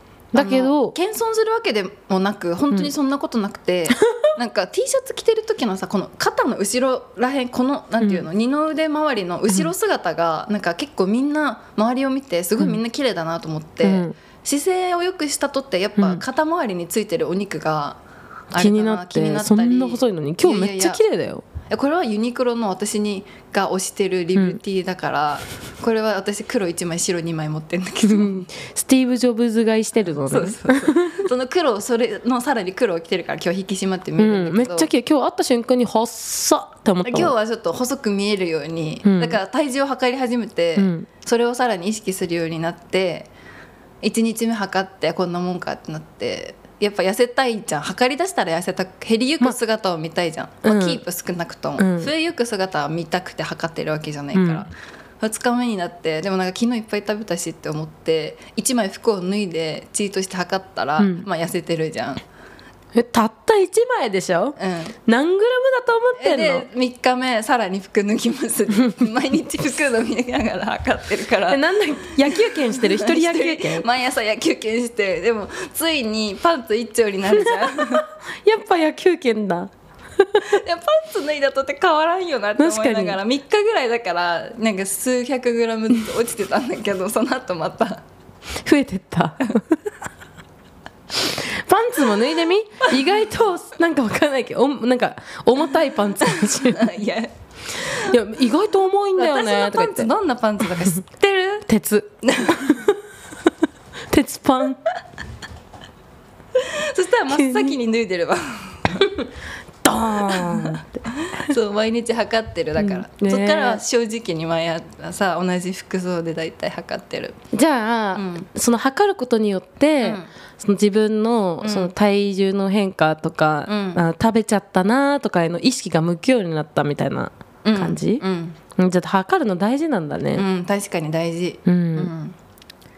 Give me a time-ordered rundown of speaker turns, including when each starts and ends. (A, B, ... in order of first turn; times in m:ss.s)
0:00.3-0:00.9 A
0:00.3-0:18.0 B
0:08.0-0:08.2 A
0:13.8-0:14.1 A
0:16.0-0:16.2 A
0:18.5-0:21.0 B
0:18.5-0:21.4 A
0:21.7-0:28.5 B
0:28.0-0:31.3 A
0:30.1-0:34.9 B
0:34.2-0:37.3 A
0:37.0-0:43.3 B
0:39.0-0:39.4 A
0:40.8-0:41.1 A
0:44.0-1:02.2 B
0:50.6-0:51.0 A
0:51.8-0:52.1 A
0:54.3-0:54.7 A
1:01.0-1:01.2 A
1:02.9-1:06.7 A
1:04.6-1:05.0 B
1:06.2-1:18.1 B
1:11.5-1:13.8 A
1:17.4-1:20.5 A
1:20.4-1:28.0 B
1:22.6-1:23.2 A
1:28.6-1:29.6 A
1:31.2-1:36.9 A
1:36.2-1:38.1 B
1:37.9-1:40.1 A
1:39.2-1:41.7 B
1:41.7-1:42.9 A
1:42.2-1:42.9 B
1:44.1-1:44.8 A
1:46.5-1:49.1 B
1:47.3-1:47.8 A
1:49.0-1:49.3 A
1:49.8-1:51.0 A
1:50.2-1:57.4 B
1:52.8-1:53.8 A
1:57.5-2:08.2 A
1:58.1-1:58.5 B
2:00.0-2:00.3 B
2:01.6-2:01.9 B
2:03.7-2:04.0 B
2:07.6-2:08.6 B
2:08.8-2:10.4 A
2:10.4-2:12.3 B
2:11.6-2:12.1 A